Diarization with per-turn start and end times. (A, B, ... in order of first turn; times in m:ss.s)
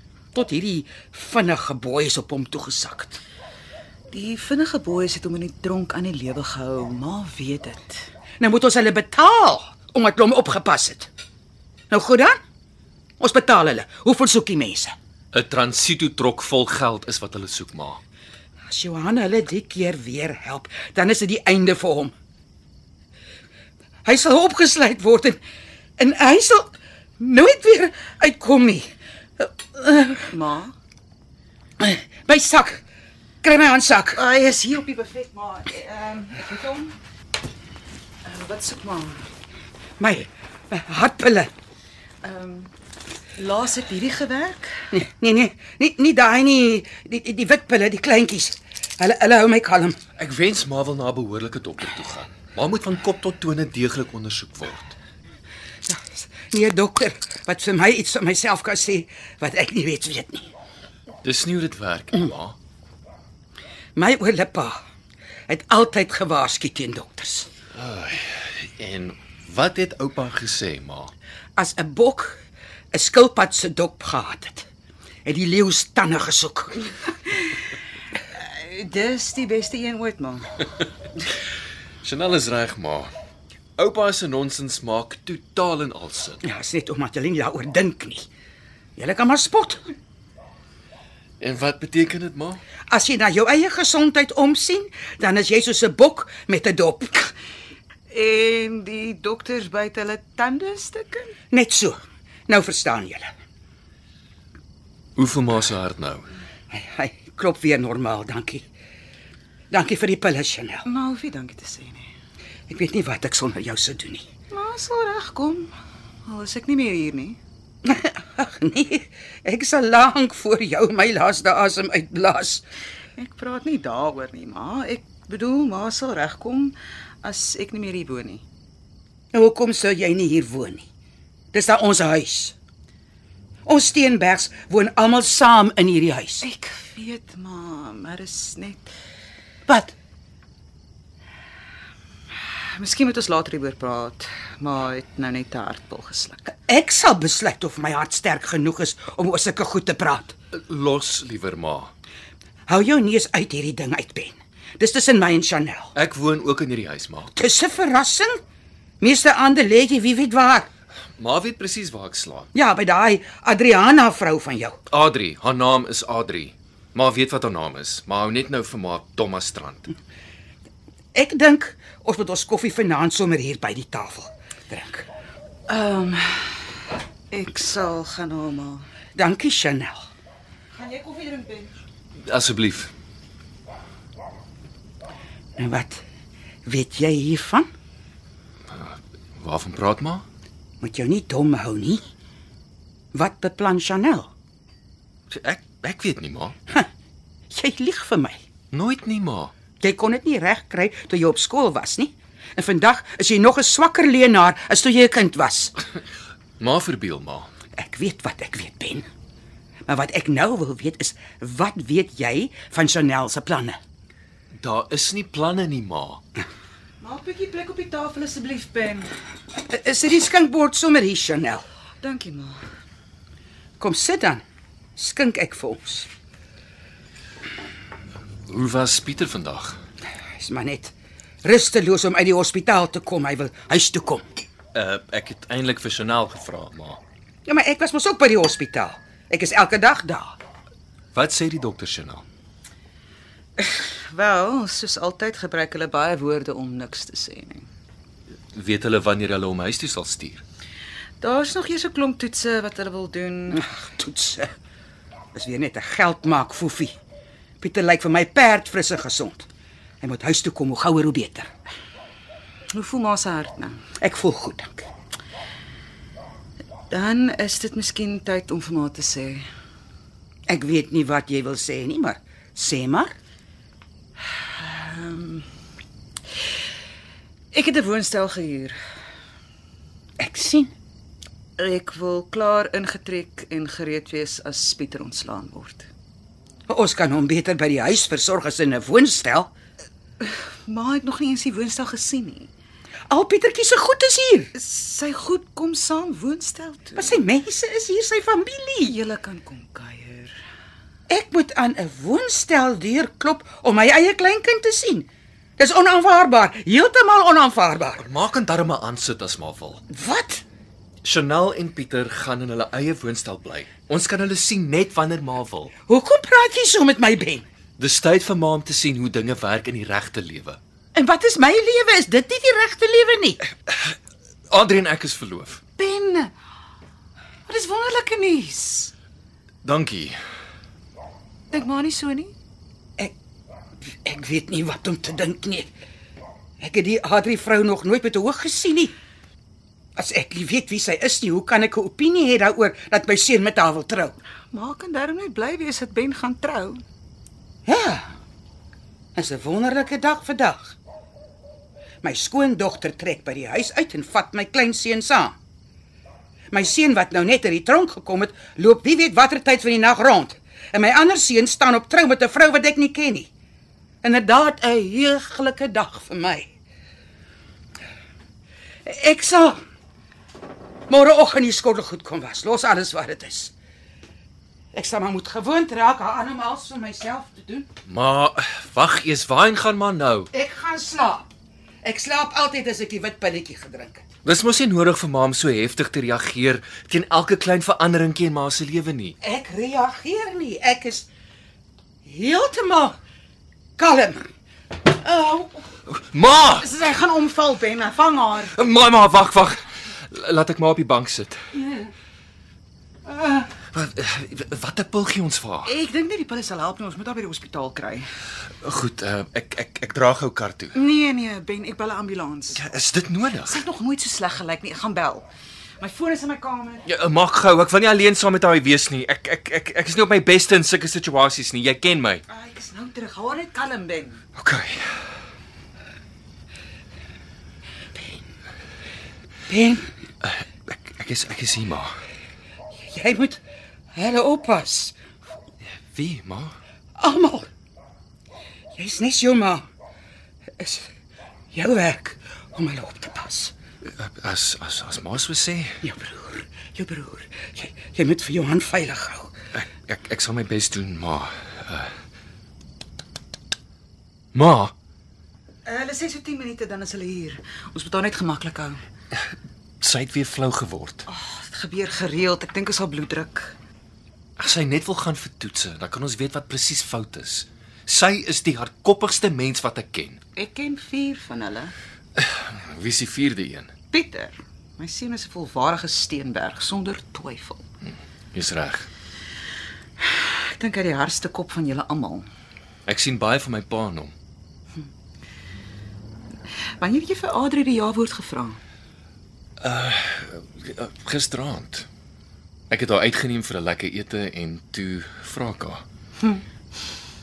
0:00.3-0:03.2 A
0:04.1-0:08.0 B
0:08.4-0:11.1 A
0:11.9-0:12.4 A
0:13.2-0:14.9 A
0:15.3-0:18.0 C
0:18.7-0:22.1 A
0:24.0-0:25.4 A
0:26.0-0:28.8 A
0:29.4-0:30.2 A
0:30.2-0:30.7 B
0:31.8-0:32.8 A
0:33.4-0:34.2 A
0:34.1-0:37.0 B
0:38.2-0:39.2 B
0:40.0-0:41.5 A
0:42.2-0:42.7 B
0:43.4-0:44.9 B
0:44.9-0:50.0 A
0:50.2-0:54.9 C
0:55.8-1:00.5 A
1:01.2-1:02.6 C
1:04.0-1:04.8 A
1:05.5-1:07.5 A
1:07.8-1:11.1 C
1:11.6-1:12.4 A
1:12.9-1:14.7 A
1:15.2-1:16.8 A
1:17.2-1:17.6 B
1:18.3-1:20.7 B
1:22.0-1:23.1 C
1:23.8-1:26.4 C
1:26.4-1:28.3 A
1:29.0-1:29.8 A
1:31.4-1:32.6 C
1:32.9-1:37.3 A
1:38.1-1:41.3 B
1:41.5-1:42.0 A
1:42.5-1:43.3 A
1:45.2-1:46.3 C
1:46.7-1:48.7 A
1:49.7-1:50.8 A
1:50.8-1:52.1 B
1:52.7-1:54.2 A
1:54.5-1:55.7 B
1:56.2-1:57.4 B
1:57.8-2:02.6 A
2:03.2-2:08.4 B
2:09.3-2:10.8 A
2:11.5-2:12.5 A
2:13.6-2:16.4 A
2:16.4-2:18.9 B
2:19.7-2:19.9 A
2:22.7-2:26.5 B
2:26.7-2:30.3 A
2:30.5-2:31.9 C
2:32.7-2:35.9 A
2:35.9-2:37.3 C
2:37.3-2:38.4 A
2:39.0-2:40.7 A
2:41.2-2:42.5 C
2:42.5-2:44.8 A
2:44.9-2:49.9 C
2:51.1-2:55.1 A
2:55.7-2:58.8 B
2:59.1-3:00.0 A
3:00.8-3:01.7 B
3:02.2-3:02.9 C
3:05.6-3:06.0 A
3:06.6-3:07.7 A
3:08.7-3:10.2 C
3:10.8-3:12.0 A
3:13.1-3:14.3 A
3:15.3-3:16.5 C
3:17.5-3:18.4 A
3:18.7-3:19.5 C
3:19.8-3:25.7 A
3:26.6-3:27.5 C
3:27.8-3:29.0 A
3:29.9-3:33.8 A
3:34.6-3:36.2 C
3:37.0-3:39.1 B
3:39.6-3:41.6 A
3:42.0-3:42.6 B
3:43.8-3:44.4 A
3:45.0-3:46.1 A
3:48.5-3:49.8 C
3:50.4-3:54.2 A
3:54.7-3:57.0 C
3:57.4-4:00.4 A
4:01.1-4:02.2 C
4:03.6-4:07.7 B
4:08.5-4:10.4 C
4:11.2-4:13.6 B
4:13.5-4:14.5 A
4:15.3-4:17.0 A
4:17.6-4:19.5 A
4:20.0-4:21.5 A
4:22.7-4:23.8 B
4:24.0-4:24.8 A
4:26.9-4:29.4 B
4:30.5-4:33.1 A
4:34.4-4:35.4 B
4:37.5-4:38.8 B
4:40.2-4:40.7 A
4:41.6-4:45.9 B
4:46.7-4:49.5 A
4:50.2-4:52.5 B
4:53.1-4:54.5 A
4:54.5-4:57.2 B
4:57.0-4:59.0 A
4:58.9-5:00.4 B
5:01.1-5:05.1 A
5:05.6-5:08.0 A
5:08.0-5:09.8 C
5:09.9-5:10.4 A
5:11.0-5:15.7 C
5:15.9-5:17.4 A
5:17.8-5:20.6 C
5:20.9-5:23.4 A
5:23.7-5:23.9 C
5:24.5-5:25.6 C
5:25.8-5:26.3 B
5:27.5-5:28.9 B
5:29.6-5:30.1 C
5:31.5-5:32.3 B
5:34.0-5:35.7 A
5:36.6-5:38.9 A
5:40.0-5:44.2 A
5:44.5-5:46.8 B
5:47.6-5:48.1 A
5:49.1-5:50.8 A
5:52.0-5:55.4 A
5:56.5-6:03.3 A
6:04.0-6:06.5 A
6:08.8-6:09.6 A
6:10.9-6:13.5 A
6:14.7-6:17.7 A
6:17.9-6:20.3 C
6:20.3-6:21.3 A
6:21.8-6:24.0 A
6:24.2-6:29.2 C
6:29.2-6:31.1 A
6:32.0-6:32.9 A
6:33.8-6:34.2 A
6:34.9-6:35.6 A
6:35.9-6:36.7 C
6:36.5-6:38.6 B
6:38.5-6:41.4 C
6:43.7-6:45.7 C
6:45.6-6:48.0 B
6:48.6-6:50.8 C
6:50.7-6:52.7 B
6:52.5-6:53.6 C
6:53.3-6:55.3 B
6:55.8-6:56.8 B
6:56.8-7:02.2 C
7:02.3-7:04.2 B
7:04.4-7:05.0 C
7:09.5-7:09.9 A
7:10.2-7:11.9 C
7:12.9-7:13.4 A
7:13.9-7:15.0 A
7:15.9-7:16.6 C
7:17.0-7:17.5 A
7:18.8-7:19.6 A
7:20.6-7:20.9 A
7:21.5-7:23.5 A
7:24.0-7:25.8 C
7:25.8-7:29.3 A
7:29.5-7:31.9 C
7:34.3-7:34.7 C
7:35.6-7:38.8 B
7:39.8-7:41.0 C
7:41.1-7:43.5 B
7:44.4-7:50.2 C
7:50.4-7:51.7 B
7:52.2-7:53.7 C
7:53.9-7:57.6 B
7:57.8-7:58.9 C
8:00.0-8:02.3 B
8:02.8-8:04.1 C
8:06.8-8:08.6 B
8:09.6-8:11.9 C
8:12.7-8:15.8 C